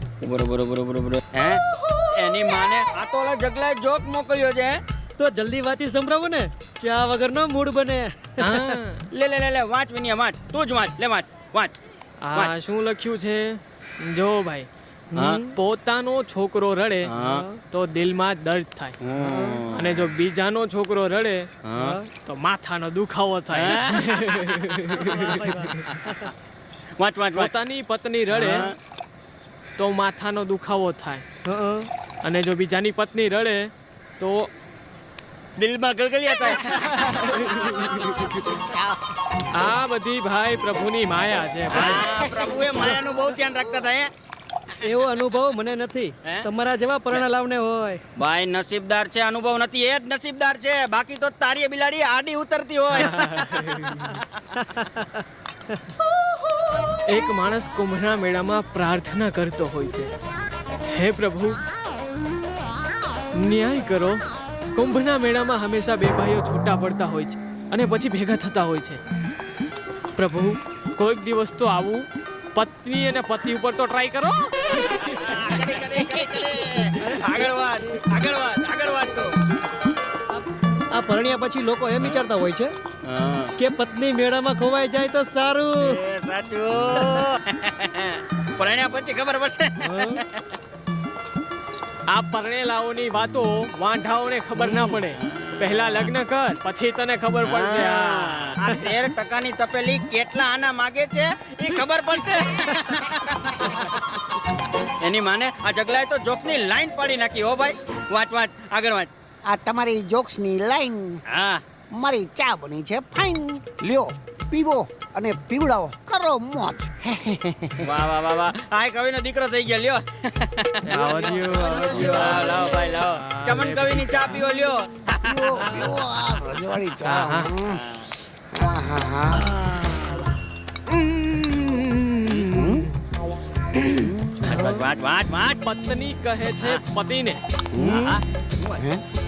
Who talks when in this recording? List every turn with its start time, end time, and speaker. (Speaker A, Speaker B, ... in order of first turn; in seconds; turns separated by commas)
Speaker A: 0.2-4.8, Speaker B: 5.2-8.8, Speaker C: 8.4-9.1, Speaker A: 9.1-11.7, Speaker C: 12.2-14.7, Speaker B: 15.1-15.5, Speaker A: 15.1-15.4, Speaker C: 15.5-17.1, Speaker A: 17.1-17.4, Speaker B: 17.2-17.6, Speaker C: 17.7-19.0, Speaker A: 19.0-20.0, Speaker B: 19.2-19.6, Speaker C: 19.7-21.5, Speaker A: 21.6-22.0, Speaker B: 21.8-22.1, Speaker C: 22.2-25.8, Speaker A: 23.5-26.1, Speaker B: 24.9-26.3, Speaker A: 27.0-27.5, Speaker C: 27.3-28.7, Speaker A: 28.3-28.8, Speaker C: 29.8-31.2, Speaker B: 31.4-31.9, Speaker C: 32.2-34.5, Speaker A: 35.6-38.0, Speaker D: 36.5-39.0, Speaker C: 36.7-38.3, Speaker C: 39.5-42.1, Speaker D: 41.7-43.8, Speaker A: 41.7-44.1, Speaker B: 44.8-48.0, Speaker A: 48.2-54.5, Speaker C: 52.9-54.2, Speaker B: 54.8-55.2, Speaker C: 57.1-60.1, Speaker C: 60.9-61.6, Speaker C: 63.4-64.2, Speaker C: 64.7-69.0, Speaker C: 70.2-75.3, Speaker A: 75.0-79.3, Speaker B: 77.0-77.3, Speaker B: 80.3-82.7, Speaker A: 83.0-83.5, Speaker B: 83.6-86.0, Speaker A: 85.8-90.4, Speaker B: 89.8-90.2, Speaker C: 92.1-98.5, Speaker A: 95.2-95.6, Speaker A: 97.4-104.2, Speaker A: 105.0-109.1, Speaker D: 109.5-111.2, Speaker A: 111.3-111.6, Speaker D: 111.9-117.9, Speaker A: 117.8-126.0, Speaker C: 120.8-124.4, Speaker D: 121.0-122.8, Speaker D: 125.2-127.8, Speaker B: 125.6-126.0, Speaker C: 127.0-127.5, Speaker A: 127.6-128.1, Speaker D: 128.5-129.5, Speaker B: 129.3-130.3, Speaker C: 130.9-132.8, Speaker D: 132.4-132.9, Speaker A: 134.4-135.6, Speaker B: 134.5-134.8, Speaker C: 135.6-137.4, Speaker D: 137.7-138.0, Speaker A: 137.8-138.8, Speaker B: 137.8-138.2, Speaker D: 138.8-139.0